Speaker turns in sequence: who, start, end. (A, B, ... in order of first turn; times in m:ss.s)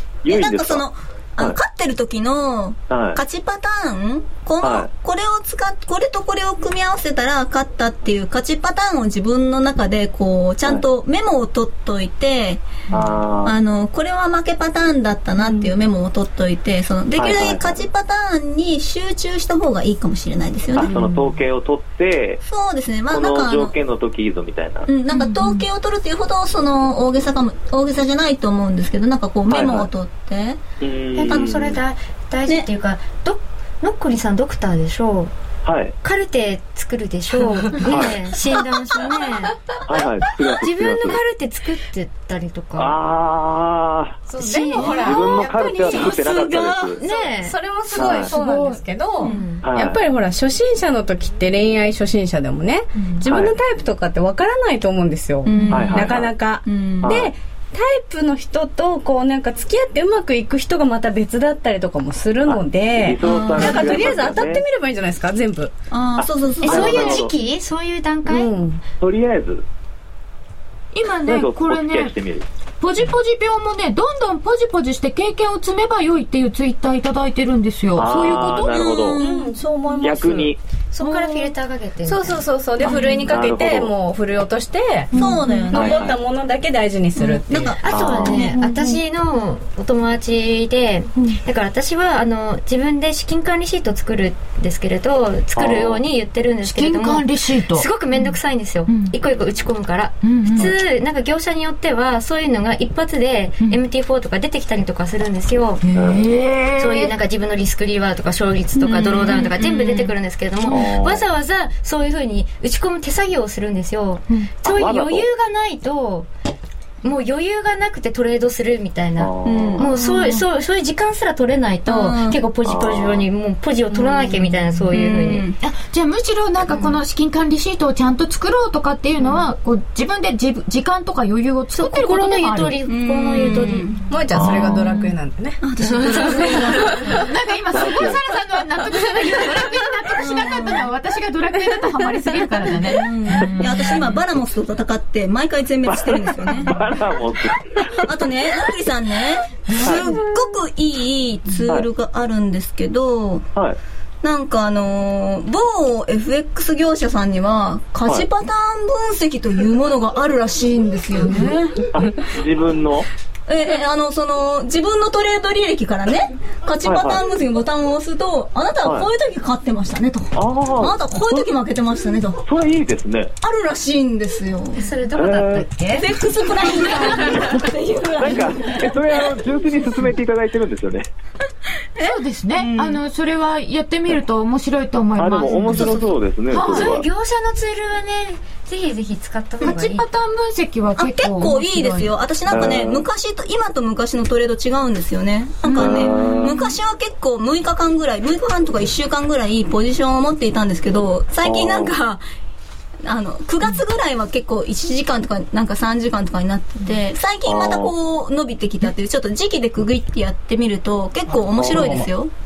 0:00.2-0:00.8 A
0:00.3-0:12.7 B
0:02.9-0:03.2 A
0:04.6-0:04.9 A
0:12.9-0:13.6 A
0:13.4-0:21.0 B
0:15.4-0:15.7 C
0:17.2-0:17.8 A
0:20.8-0:22.4 A
0:20.8-0:21.1 C
0:22.4-0:23.8 B
0:23.1-0:24.9 A
0:24.9-0:30.6 B
0:25.1-0:25.6 D
0:29.5-0:29.9 A
0:30.8-0:31.8 A
0:31.2-0:35.3 E
0:35.6-0:36.0 A
0:36.0-0:39.6 E
0:37.8-0:38.2 A
0:39.9-0:41.2 A
0:40.4-0:43.0 E
0:42.8-0:44.2 A
0:44.3-1:05.7 C
0:44.3-0:45.5 E
0:44.8-0:45.2 D
0:45.0-0:47.0 A
0:47.0-0:48.3 E
0:47.9-0:48.3 A
0:48.1-0:48.8 D
0:49.2-0:49.6 E
0:49.6-0:50.0 A
0:53.3-0:53.6 A
0:55.4-0:57.1 B
0:55.7-0:56.4 A
0:57.0-0:57.3 A
1:02.4-1:04.6 A
1:03.2-1:04.1 B
1:05.9-1:07.3 B
1:06.2-1:07.3 A
1:06.6-1:08.5 E
1:08.3-1:08.8 C
1:09.0-1:09.7 A
1:10.9-1:12.2 D
1:11.2-1:12.5 A
1:12.8-1:19.0 D
1:18.0-1:19.2 A
1:18.7-1:19.6 B
1:19.2-1:21.5 C
1:20.0-1:20.6 A
1:20.9-1:22.4 E
1:22.1-1:27.8 C
1:23.2-1:23.9 A
1:25.1-1:26.2 B
1:25.2-1:25.6 D
1:25.7-1:26.2 A
1:27.3-1:28.6 B
1:27.8-1:45.8 E
1:27.9-1:28.5 A
1:28.5-1:29.0 D
1:35.6-1:36.0 A
1:36.6-1:38.3 D
1:38.9-1:39.2 D
1:40.2-1:40.7 D
1:45.8-1:47.1 D
1:46.0-1:46.3 A
1:46.8-1:56.3 E
1:48.8-1:50.1 B
1:50.7-1:51.2 A
1:54.6-1:55.3 A
1:57.0-2:05.5 E
1:59.2-1:59.9 A
1:59.4-1:59.9 B
2:00.0-2:00.3 D
2:01.9-2:02.4 B
2:02.6-2:03.2 A
2:04.9-2:05.6 B
2:05.6-2:12.8 D
2:06.7-2:07.0 E
2:11.7-2:13.9 E
2:12.8-2:14.0 B
2:14.1-2:15.6 C
2:14.3-2:14.9 A
2:15.6-2:17.2 B
2:15.9-2:16.7 E
2:17.1-2:24.1 D
2:17.7-2:18.2 A
2:20.2-2:20.9 B
2:22.8-2:26.8 B
2:25.9-2:28.0 A
2:28.0-2:33.5 B
2:29.7-2:30.2 D
2:34.2-2:42.0 B
2:41.9-2:43.1 A
2:43.5-2:52.4 B
2:46.8-2:47.2 A
2:48.8-2:49.1 A
2:50.4-2:51.5 A
2:52.4-2:53.3 A
2:53.4-2:54.8 B
2:54.8-2:56.1 E
2:55.2-2:55.7 A
2:56.0-2:59.0 B
2:56.6-2:57.3 E
2:58.2-3:01.1 A
3:02.0-3:03.0 B
3:02.0-3:07.0 D
3:05.2-3:07.1 A
3:05.5-3:10.0 E
3:09.6-3:12.1 D
3:11.0-3:22.2 B
3:12.5-3:13.1 A
3:15.7-3:16.0 D
3:15.8-3:16.6 A
3:21.4-3:21.9 A
3:23.0-3:32.3 B
3:27.5-3:27.9 A
3:31.5-3:32.1 A